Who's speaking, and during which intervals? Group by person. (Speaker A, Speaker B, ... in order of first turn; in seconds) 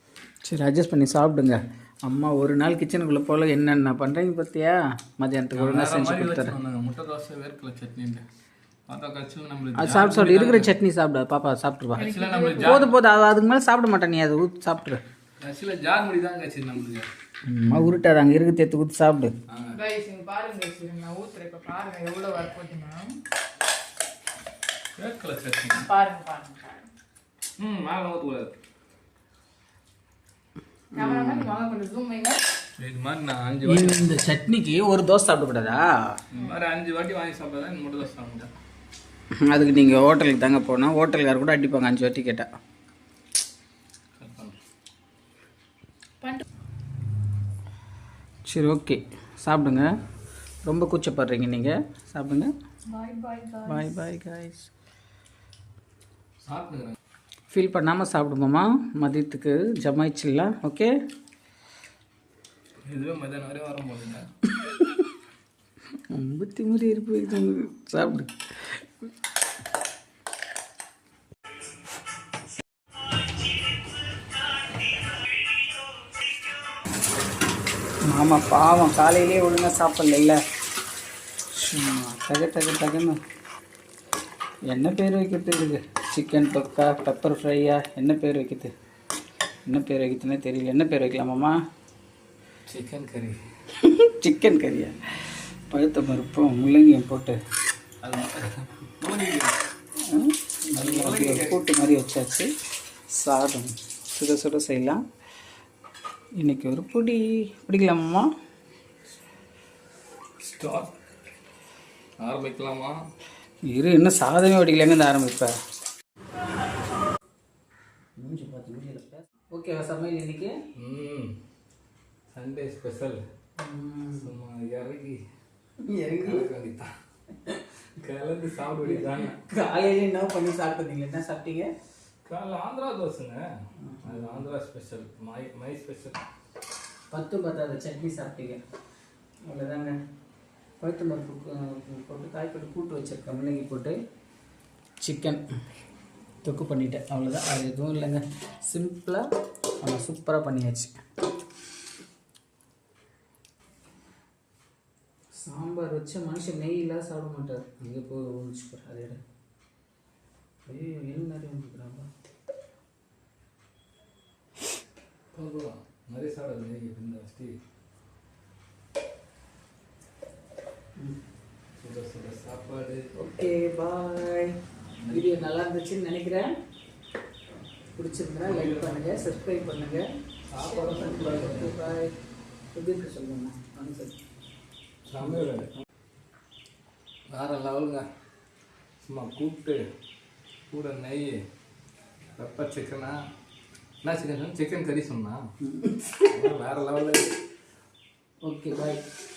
Speaker A: 0.4-6.5, 9.7-15.0, 17.5-19.3, 30.9-31.5, 33.6-35.9, 39.4-42.5, 48.5-49.9, 50.6-52.5, 53.6-54.7, 57.5-60.9, 66.1-68.3, 78.0-80.4, 81.5-83.2, 84.7-88.7, 89.7-91.5, 93.8-97.4, 100.1-102.5, 103.1-105.0, 106.4-108.3, 113.7-115.5, 118.2-120.5, 123.6-124.3, 125.9-126.5, 128.8-131.7, 133.8-134.5, 137.1-138.6, 139.5-139.9, 140.8-143.9, 145.0-145.4, 146.4-149.2, 149.8-151.0, 155.4-159.2, 160.7-162.1, 173.2-174.5, 175.1-176.5, 177.9-182.1, 182.7-184.2, 185.2-185.5, 195.6-196.3, 198.4-199.0
Speaker B: 5.5-8.2, 8.9-10.7, 12.0-12.9, 15.4-17.1, 19.5-19.8, 25.0-25.9, 27.6-28.5, 32.8-34.2, 36.3-38.5, 44.1-44.6, 56.4-57.0, 62.8-64.3, 92.7-93.4, 98.0-99.6, 100.7-101.6, 110.4-110.9, 112.2-113.0, 120.8-121.3, 122.3-123.2, 124.2-125.2, 126.2-126.9, 128.0-129.3, 132.2-133.5, 134.0-136.2, 165.3-167.6, 171.8-173.0, 175.0-175.5, 178.4-179.1, 180.4-181.9, 185.0-185.7, 187.3-188.0, 189.0-189.8, 190.7-191.3, 192.3-193.2, 194.0-195.4, 196.3-197.3
Speaker C: 12.0-12.7, 19.7-23.1, 25.7-26.9, 30.9-32.4, 52.9-53.8